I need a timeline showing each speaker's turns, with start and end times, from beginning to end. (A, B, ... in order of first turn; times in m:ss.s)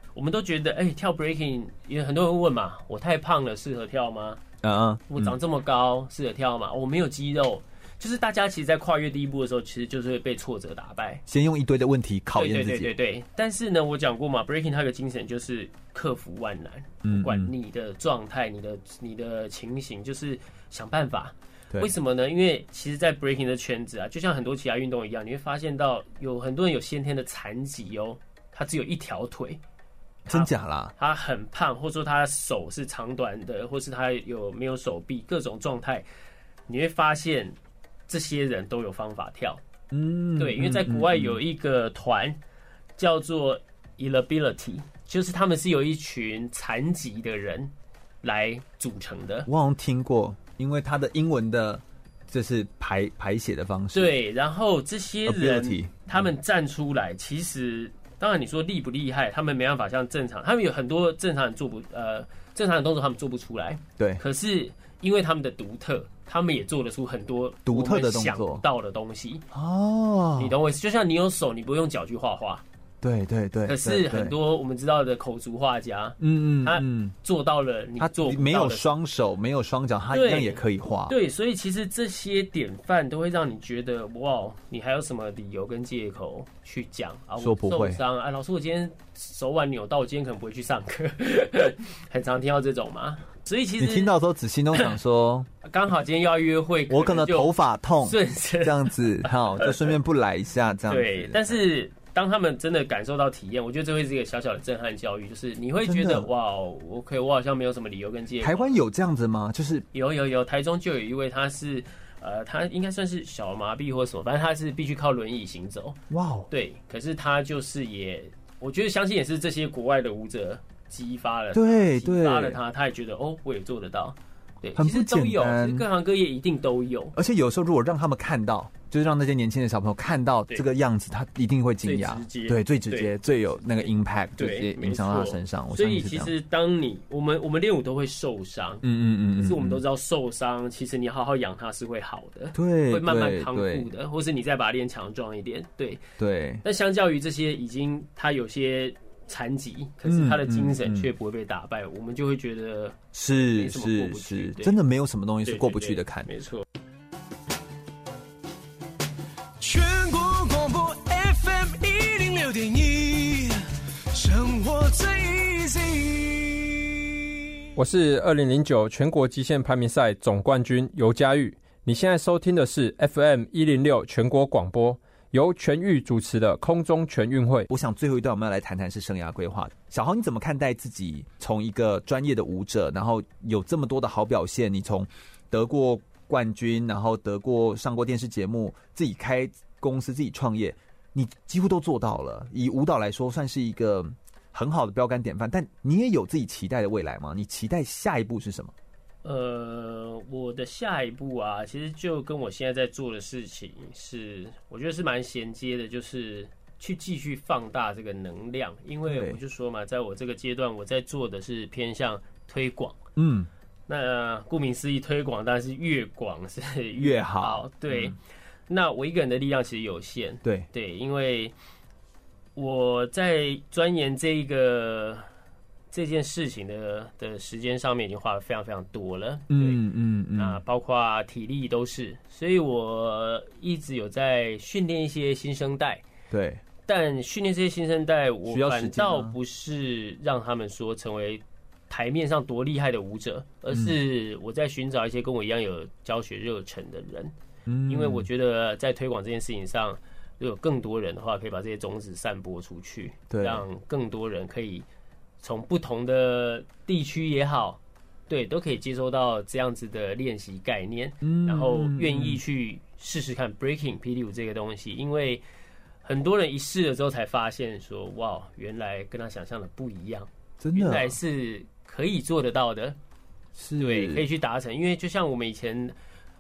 0:00.2-0:04.4 A
0:04.6-0:05.4 B
0:05.1-0:11.2 A
0:11.3-0:12.9 B
0:12.4-0:29.6 A
0:17.0-0:17.5 B
0:30.3-0:36.0 A
0:30.3-0:30.9 B
0:36.7-0:37.6 A
0:38.1-0:39.6 A
0:39.9-0:41.4 B
0:40.4-0:42.4 A
0:43.0-0:47.7 A
0:48.2-0:49.5 A
0:49.5-0:54.2 B
0:53.9-1:09.4 A
0:55.2-0:56.3 B
1:07.7-1:08.6 B
1:09.5-1:10.6 B
1:10.4-1:12.6 A
1:13.0-1:14.4 B
1:13.7-1:18.9 A
1:16.2-1:17.2 B
1:18.0-1:21.2 B
1:20.1-1:34.1 A
1:27.4-1:28.0 B
1:33.8-1:35.5 B
1:35.6-1:39.9 A
1:36.9-1:41.6 B
1:40.9-1:48.8 A
1:45.8-1:46.3 B
1:48.4-1:49.9 B
1:49.9-2:07.2 A
1:56.1-1:56.5 B
2:01.5-2:02.6 B
2:04.8-2:05.9 B
2:07.1-2:16.3 B
2:11.8-2:13.1 A
2:14.4-2:18.8 A
2:18.8-2:19.8 B
2:19.4-2:26.0 A
2:22.5-2:23.9 B
2:26.2-2:26.6 B
2:26.6-2:34.8 A
2:30.0-2:31.1 B
2:33.1-2:36.3 B
2:35.4-2:36.6 A
2:39.6-2:47.0 C
2:47.8-2:57.7 D
2:57.7-3:18.7 B
3:19.2-3:33.0 A
3:29.0-3:29.4 B
3:33.2-3:33.5 B
3:33.9-3:38.2 A
3:37.0-3:38.2 B
3:38.7-3:41.5 A
3:42.6-3:45.3 A
3:45.9-3:49.8 A
3:49.5-3:50.6 B
3:50.4-3:56.0 A
3:56.3-3:56.6 B
3:56.9-4:07.3 A
3:58.5-3:59.4 B
4:03.7-4:04.0 B
4:07.7-4:08.3 B
4:07.9-4:14.9 A
4:13.3-4:13.6 B
4:15.4-4:25.4 A
4:21.2-4:22.4 B
4:26.0-4:33.0 A
4:30.6-4:31.2 B
4:33.6-4:34.3 B
4:33.8-4:35.9 A